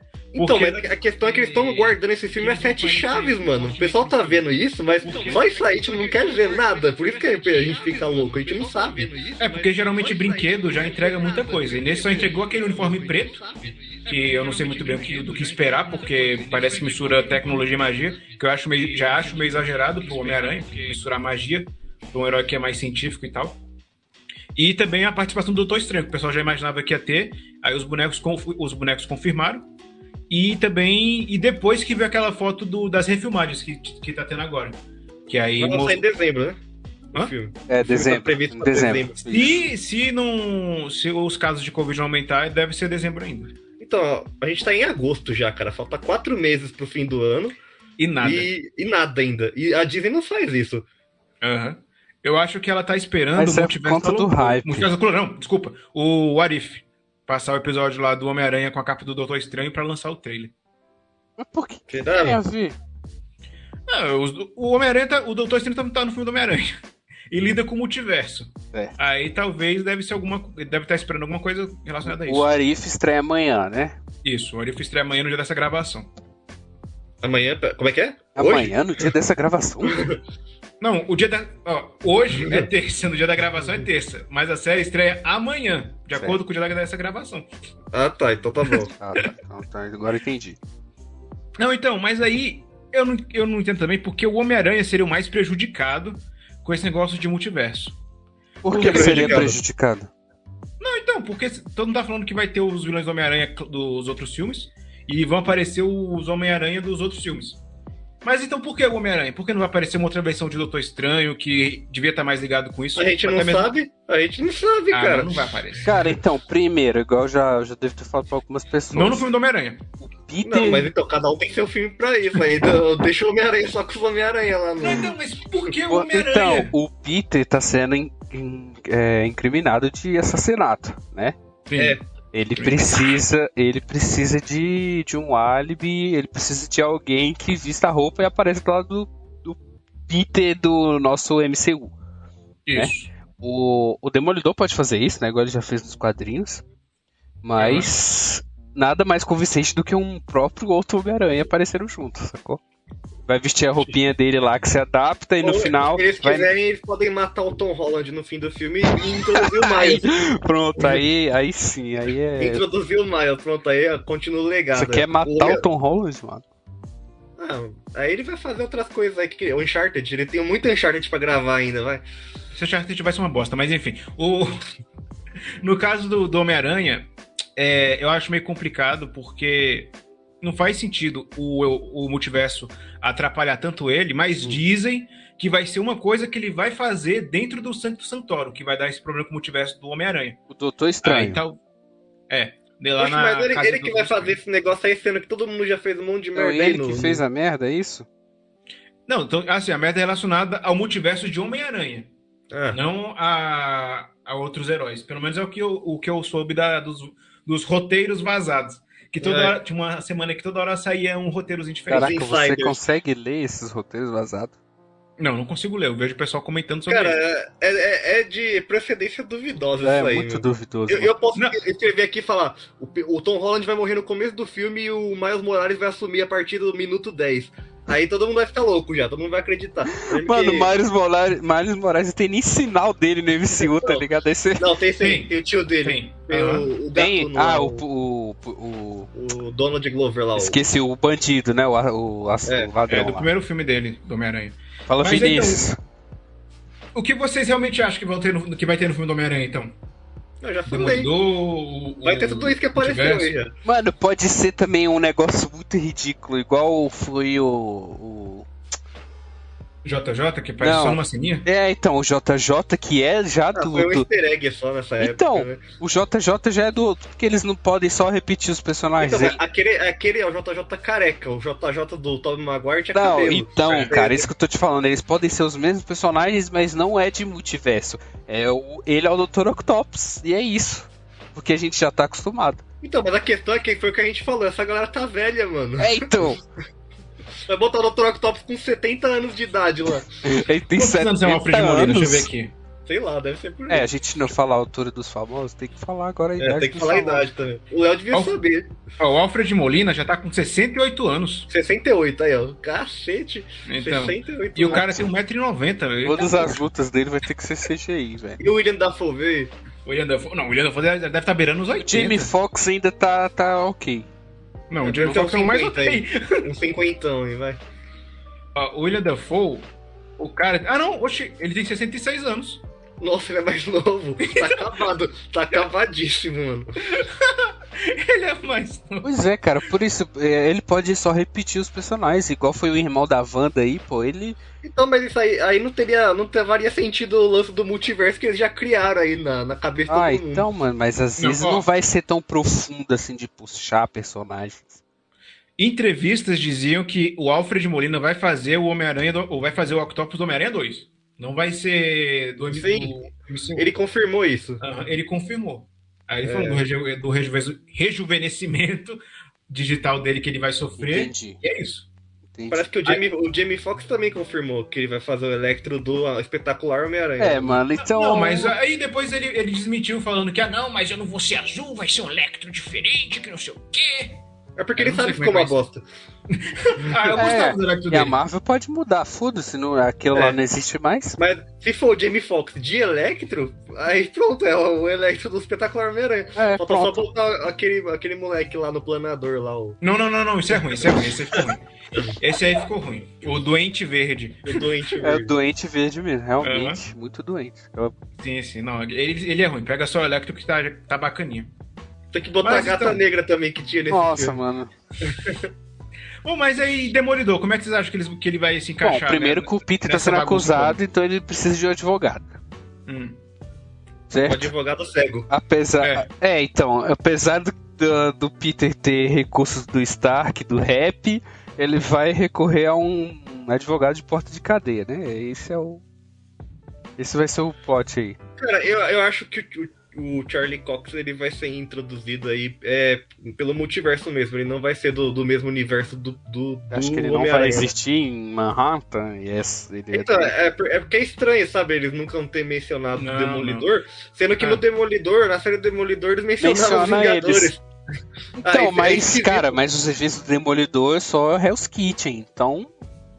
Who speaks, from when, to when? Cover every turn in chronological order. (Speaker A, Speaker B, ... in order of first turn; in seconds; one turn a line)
Speaker A: 0.3-13.8
Speaker B: 0.3-4.5
Speaker B: 5.0-6.6
Speaker B: 7.9-13.4
Speaker B: 14.0-23.6
Speaker B: 24.6-29.6
Speaker B: 30.3-36.0
Speaker A: 35.6-36.6
Speaker A: 37.1-39.2
Speaker C: 37.7-39.6
Speaker B: 39.3-43.5
Speaker A: 43.8-47.5
Speaker B: 48.0-48.5
Speaker A: 48.2-50.9
Speaker B: 51.4-60.5
Speaker C: 53.3-54.9
Speaker C: 61.4-62.8
Speaker A: 61.9-62.4
Speaker B: 63.9-66.8
Speaker B: 67.3-72.5
Speaker C: 72.0-74.0
Speaker B: 74.2-76.1
Speaker A: 77.2-78.7
Speaker C: 78.3-80.0
Speaker A: 79.8-80.2
Speaker B: 80.8-87.5
Speaker A: 82.3-82.7
Speaker A: 87.9-88.9
Speaker C: 89.0-90.6
Speaker B: 91.6-98.0
Speaker C: 98.6-100.1
Speaker B: 98.7-99.5
Speaker A: 98.7-99.6
Speaker B: 100.8-107.6
Speaker B: 108.2-113.7
Speaker A: 113.0-115.4
Speaker B: 114.9-116.0
Speaker C: 115.8-119.2
Speaker B: 118.9-119.8
Speaker C: 120.0-120.9
Speaker A: 120.4-125.1
Speaker B: 124.8-126.7
Speaker C: 125.9-131.3
Speaker B: 131.7-132.0
Speaker A: 131.7-132.0
Speaker C: 132.3-141.9
Speaker B: 132.6-132.9
Speaker B: 142.7-143.1
Speaker C: 142.8-146.6
Speaker C: 147.4-152.6
Speaker B: 147.6-147.9
Speaker C: 153.3-156.5
Speaker A: 155.4-160.2
Speaker C: 159.4-162.6
Speaker A: 162.4-165.6
Speaker C: 164.7-166.4
Speaker A: 167.4-172.0
Speaker B: 172.5-174.6
Speaker B: 175.6-190.4
Speaker C: 190.5-191.4
Speaker B: 191.0-191.6
Speaker B: 192.3-194.4
Speaker A: 193.0-197.2
Speaker C: 196.3-198.1
Speaker B: 199.1-202.1
Speaker A: 202.5-202.8
Speaker B: 202.7-212.1
Speaker A: 209.2-209.6
Speaker A: 211.9-212.8
Speaker C: 211.9-214.5
Speaker B: 215.2-217.2
Speaker A: 216.9-230.7
Speaker C: 219.8-221.1
Speaker C: 229.9-234.7
Speaker A: 233.5-234.1
Speaker A: 234.6-237.8
Speaker B: 235.0-236.7
Speaker C: 236.9-239.1
Speaker A: 239.1-240.6
Speaker C: 240.4-243.3
Speaker A: 242.5-242.7
Speaker B: 242.9-245.7
Speaker C: 244.9-245.8
Speaker B: 246.9-249.7
Speaker A: 250.4-251.1
Speaker B: 250.7-253.3
Speaker A: 252.0-253.5
Speaker C: 253.6-258.5
Speaker B: 259.8-261.4
Speaker C: 260.6-264.1
Speaker A: 263.5-265.6
Speaker C: 265.0-269.4
Speaker A: 269.0-274.3
Speaker C: 272.9-282.6
Speaker B: 273.6-273.9
Speaker A: 282.8-286.3
Speaker C: 285.8-286.4
Speaker A: 287.4-290.1
Speaker C: 290.2-292.3
Speaker B: 290.7-292.5
Speaker A: 292.9-293.9
Speaker C: 293.7-297.3
Speaker A: 296.4-298.7
Speaker B: 299.0-301.5
Speaker A: 301.5-305.1
Speaker B: 303.7-306.6
Speaker C: 306.0-308.5
Speaker A: 308.4-309.5
Speaker B: 309.8-312.3
Speaker C: 311.8-314.1
Speaker B: 314.7-316.4
Speaker A: 314.8-317.6
Speaker B: 318.5-319.7
Speaker B: 320.2-322.6
Speaker A: 323.0-326.7
Speaker B: 324.2-324.8
Speaker B: 326.9-329.1
Speaker C: 329.0-334.4
Speaker A: 334.6-340.4
Speaker C: 339.9-344.8
Speaker B: 341.2-341.6
Speaker B: 345.6-353.7
Speaker A: 352.5-353.0
Speaker A: 353.6-354.6
Speaker B: 354.6-361.9
Speaker A: 356.2-356.6
Speaker C: 360.8-361.4
Speaker C: 362.3-362.7
Speaker A: 362.5-367.6
Speaker C: 367.2-368.5
Speaker B: 367.8-374.2
Speaker A: 374.6-375.8
Speaker B: 374.8-375.6
Speaker B: 376.4-378.1
Speaker A: 376.8-377.2
Speaker C: 377.1-381.2
Speaker A: 380.1-380.4
Speaker A: 381.2-389.8
Speaker C: 386.4-387.1
Speaker B: 389.8-391.6
Speaker A: 390.7-391.5
Speaker B: 392.2-394.6
Speaker A: 394.4-395.3
Speaker C: 395.0-397.9
Speaker B: 396.4-396.8
Speaker B: 398.2-401.5
Speaker A: 402.1-404.4
Speaker B: 402.4-403.0
Speaker C: 403.9-404.7
Speaker A: 405.0-405.5
Speaker B: 406.2-410.8
Speaker C: 408.8-412.3
Speaker B: 412.9-413.2
Speaker C: 414.1-414.5
Speaker A: 414.2-415.3
Speaker C: 415.3-425.8
Speaker B: 415.8-416.1
Speaker C: 427.0-428.2
Speaker A: 428.4-437.7
Speaker C: 436.7-440.3
Speaker A: 439.9-447.6
Speaker B: 442.9-443.7
Speaker B: 444.4-444.6
Speaker C: 446.4-447.5
Speaker C: 448.4-452.7
Speaker A: 448.4-449.6